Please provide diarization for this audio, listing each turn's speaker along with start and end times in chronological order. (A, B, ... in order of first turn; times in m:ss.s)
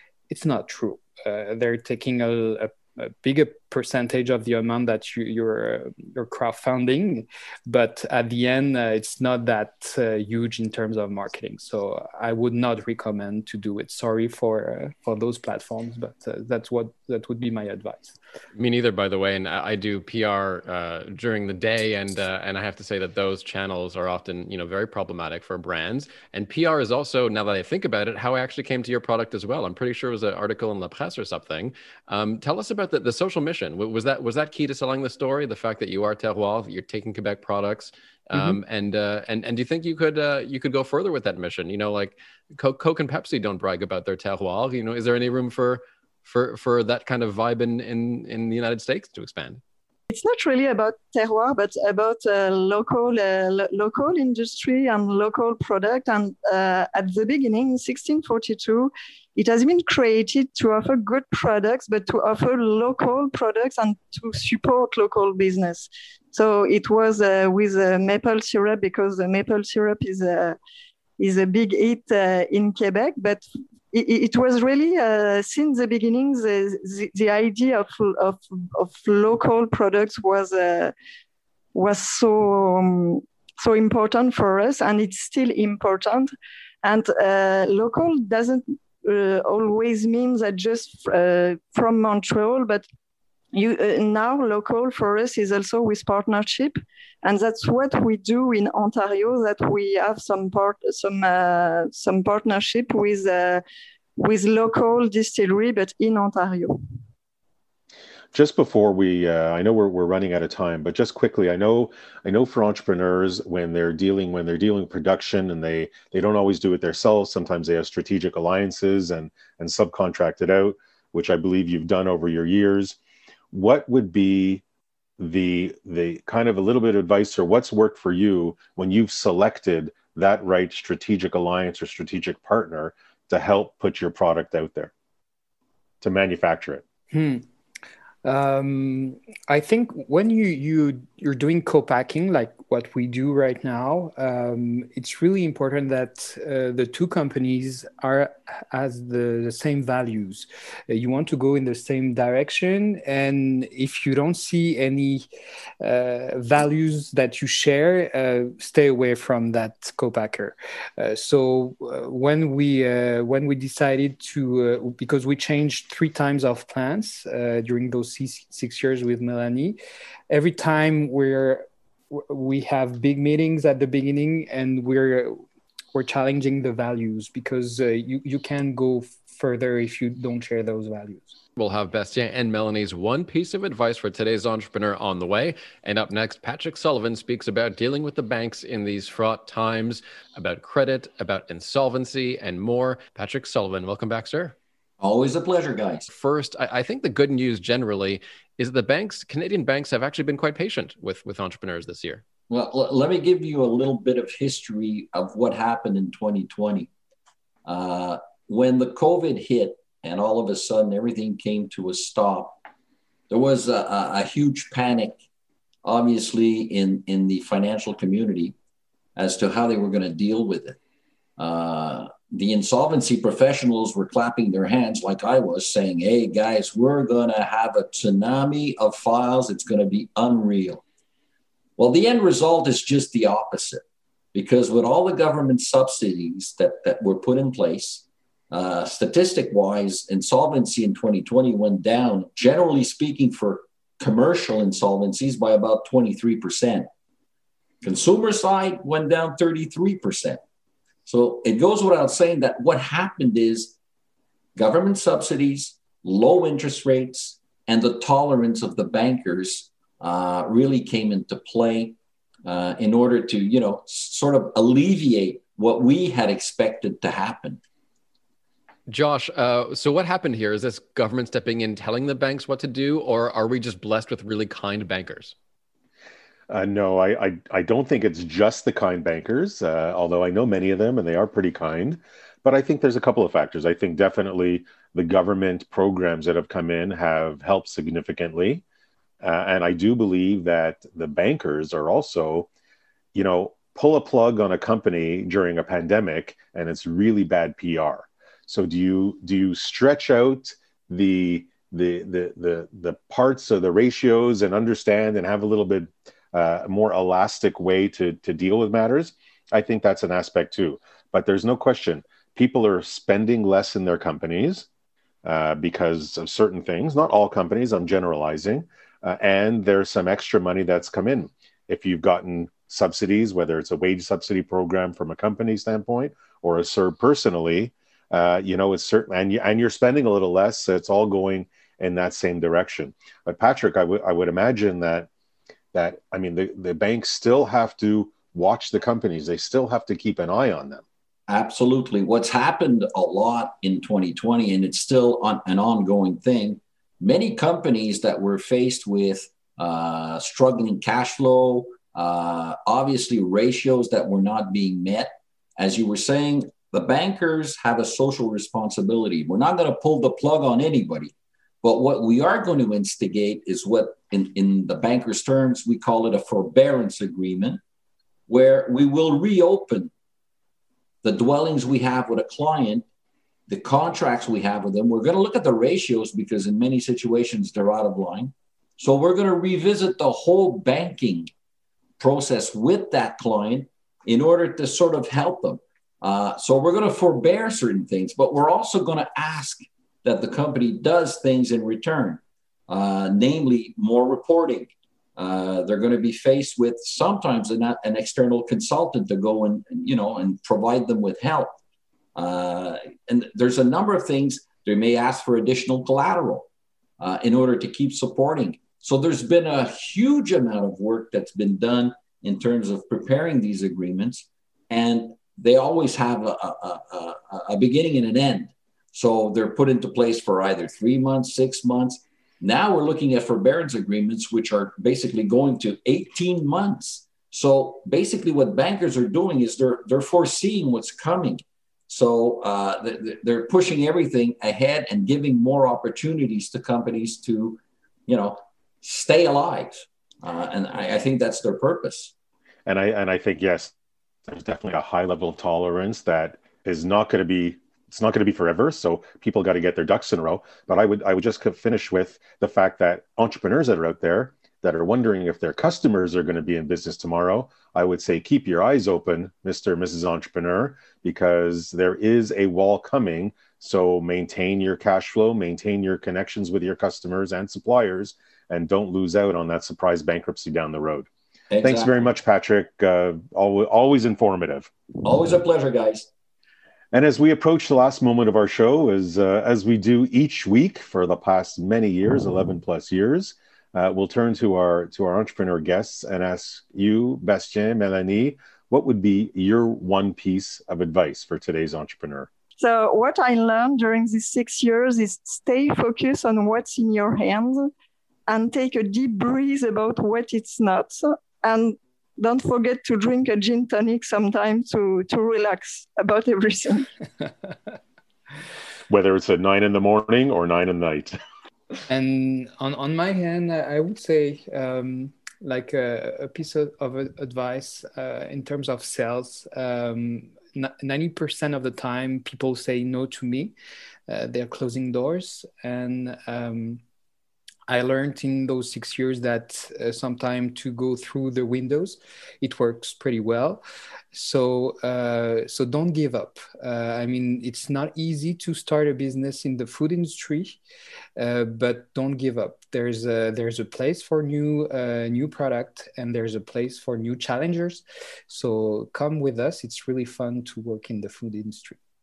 0:00.3-0:18.2 A
0:18.6-0:49.6 B
0:50.1-1:10.6 C
1:11.2-1:20.9 C
1:21.7-1:26.3 C
1:26.8-1:32.8 C
1:33.5-1:43.6 C
1:44.2-1:46.8 C
1:48.3-2:03.0 D
2:03.5-2:04.6 D
2:05.2-2:14.9 D
2:16.0-2:16.8 D
2:17.1-2:17.4 A
2:18.2-2:35.3 A
2:35.8-2:49.8 A
2:50.3-2:55.4 A
2:55.9-3:01.4 A
3:01.6-3:14.6 B
3:15.0-3:16.1 E
3:16.1-3:22.2 B
3:22.5-3:26.9 E
3:27.6-3:32.6 E
3:33.3-3:35.2 E
3:35.8-3:38.6 E
3:39.2-3:40.8 E
3:41.4-3:50.8 E
3:51.8-3:53.8 E
3:54.3-4:06.9 E
4:07.8-4:10.4 E
4:11.1-4:13.8 E
4:14.6-4:27.6 E
4:28.9-4:35.4 B
4:36.5-4:48.6 D
4:49.2-4:52.5 D
4:53.1-5:14.7 D
5:15.2-5:35.1 D
5:35.7-5:40.8 D
5:41.3-6:07.6 E
6:08.3-6:09.9 E
6:11.0-6:12.8 E
6:13.5-6:21.3 E
6:22.0-6:41.6 E
6:42.2-6:46.5 E
6:47.0-7:22.1 E
7:22.7-7:23.7 D
7:24.3-7:51.1 D
7:51.5-7:51.9 E
7:51.6-7:54.7 D
7:55.0-7:56.1 E
7:56.9-8:12.3 D
8:12.6-8:17.7 C
8:18.3-8:26.9 C
8:28.9-8:31.2 D
8:31.9-8:43.5 A
8:44.1-8:46.8 A
8:47.7-8:53.6 A
8:54.1-9:00.6 A
9:01.2-9:11.8 A